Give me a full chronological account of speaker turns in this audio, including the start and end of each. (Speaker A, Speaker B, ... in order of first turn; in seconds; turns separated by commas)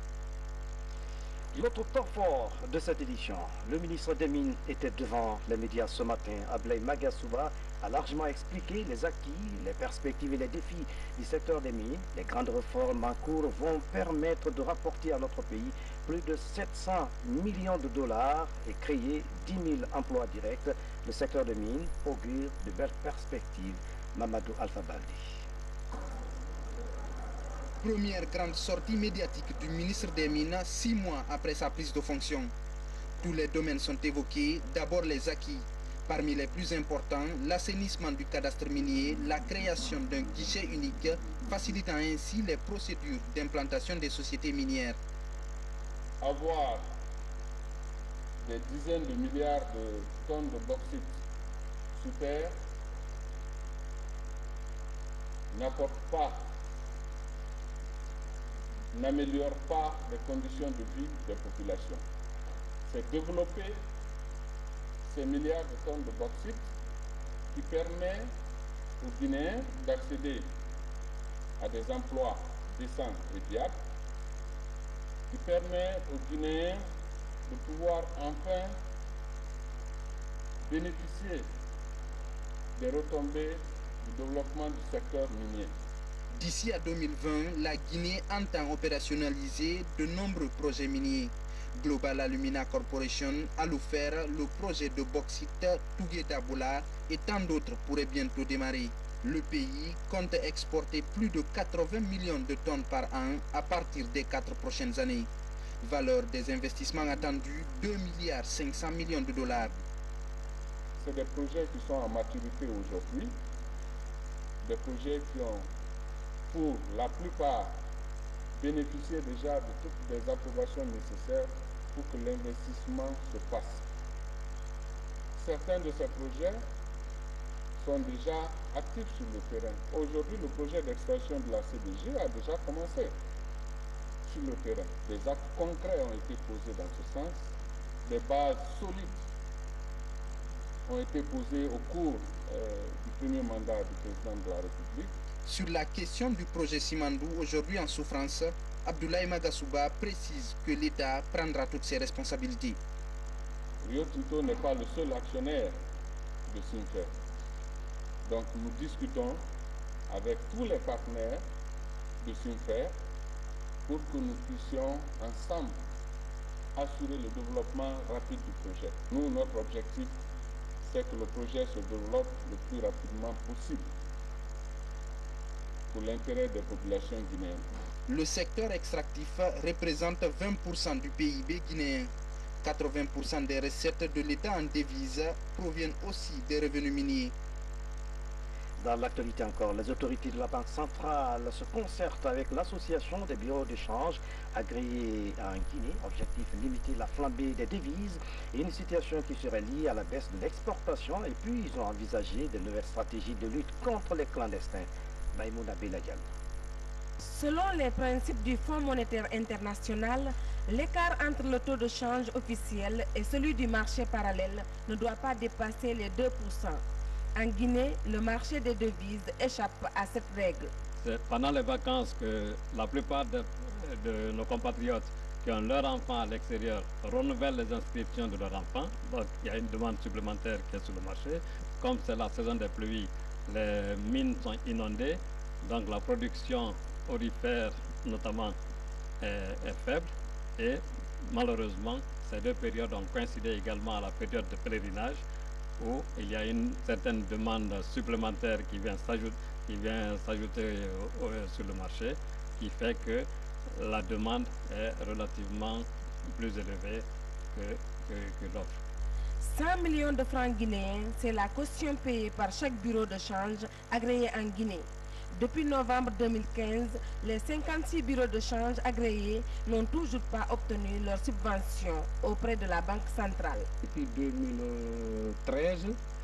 Speaker A: 1.5-25.4, Speaker B: 27.8-32.5, Speaker B: 33.2-45.0, Speaker C: 46.2-46.9, Speaker C: 48.4-51.2, Speaker C: 52.0-52.5, Speaker C: 55.5-56.5, Speaker C: 58.9-62.0, Speaker C: 62.9-63.8, Speaker C: 65.0-66.6, Speaker C: 67.5-68.3, Speaker C: 69.0-70.5, Speaker C: 71.6-73.8, Speaker C: 75.3-76.8, Speaker C: 77.5-78.8, Speaker C: 80.7-81.5, Speaker C: 82.8-85.7, Speaker B: 86.3-105.3, Speaker B: 105.8-109.8, Speaker C: 111.0-113.3, Speaker C: 114.6-115.7, Speaker C: 116.5-117.8, Speaker C: 118.6-123.8, Speaker C: 125.4-126.6, Speaker C: 127.8-133.1, Speaker C: 134.2-137.4, Speaker C: 138.0-139.2, Speaker C: 140.9-145.1, Speaker B: 145.5-152.8, Speaker C: 153.8-155.8, Speaker C: 156.5-157.1, Speaker C: 158.2-159.4, Speaker C: 160.1-161.4, Speaker C: 162.2-162.9, Speaker C: 163.9-165.8, Speaker C: 166.8-170.1, Speaker C: 170.8-173.9, Speaker C: 175.9-177.7, Speaker B: 178.1-182.1, Speaker B: 182.6-187.3, Speaker A: 188.8-206.2, Speaker D: 207.2-216.8, Speaker D: 217.3-220.7, Speaker E: 221.0-238.6, Speaker E: 239.2-245.2, Speaker E: 245.8-258.8, Speaker D: 259.4-273.7, Speaker F: 273.8-276.0